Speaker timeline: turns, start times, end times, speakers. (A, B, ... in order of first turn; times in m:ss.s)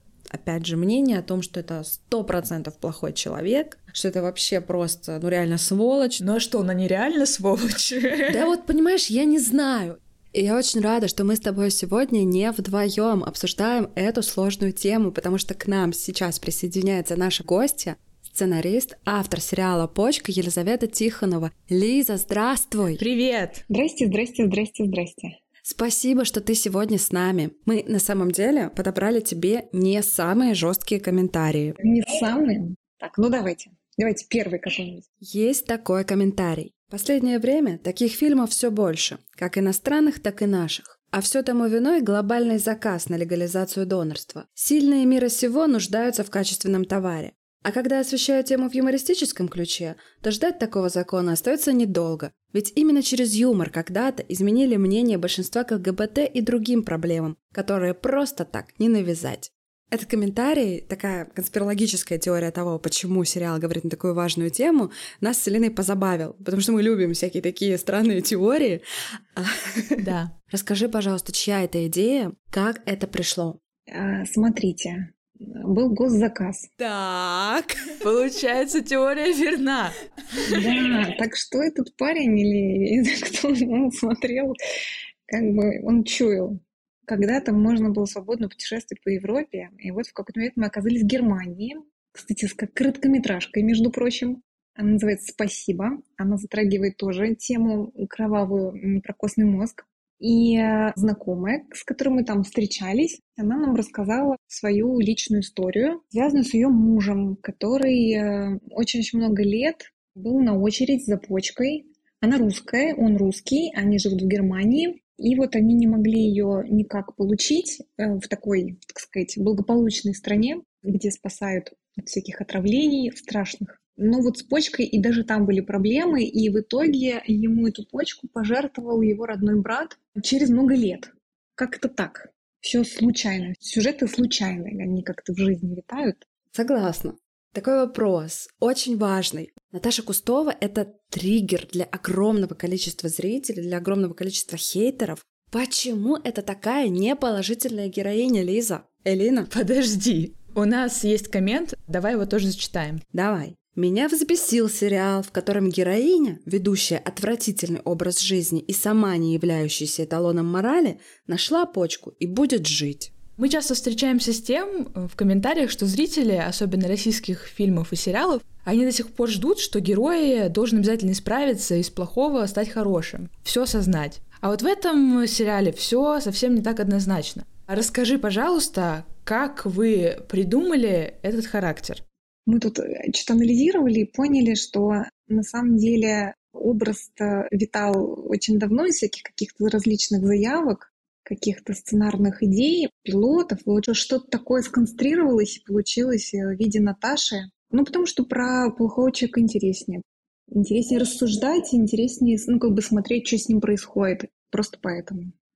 0:00.3-0:06.2 A
0:06.2-0:08.5 B
0:08.3-0:23.0 A
0:23.0-0:23.6 B
0:23.7-0:25.3 C
0:25.6-0:31.8 A
0:31.8-0:35.0 C
0:35.2-1:08.8 A
1:09.3-1:13.6 A
1:10.0-1:10.3 B
1:13.9-1:16.7 C
1:16.8-1:18.0 A
1:18.0-1:20.8 B
1:20.4-1:24.5 C
1:25.3-2:16.2 C
2:16.5-2:29.5 A
2:29.5-2:33.0 B
2:33.1-2:43.1 A
2:43.4-3:02.0 B
3:02.4-3:25.3 C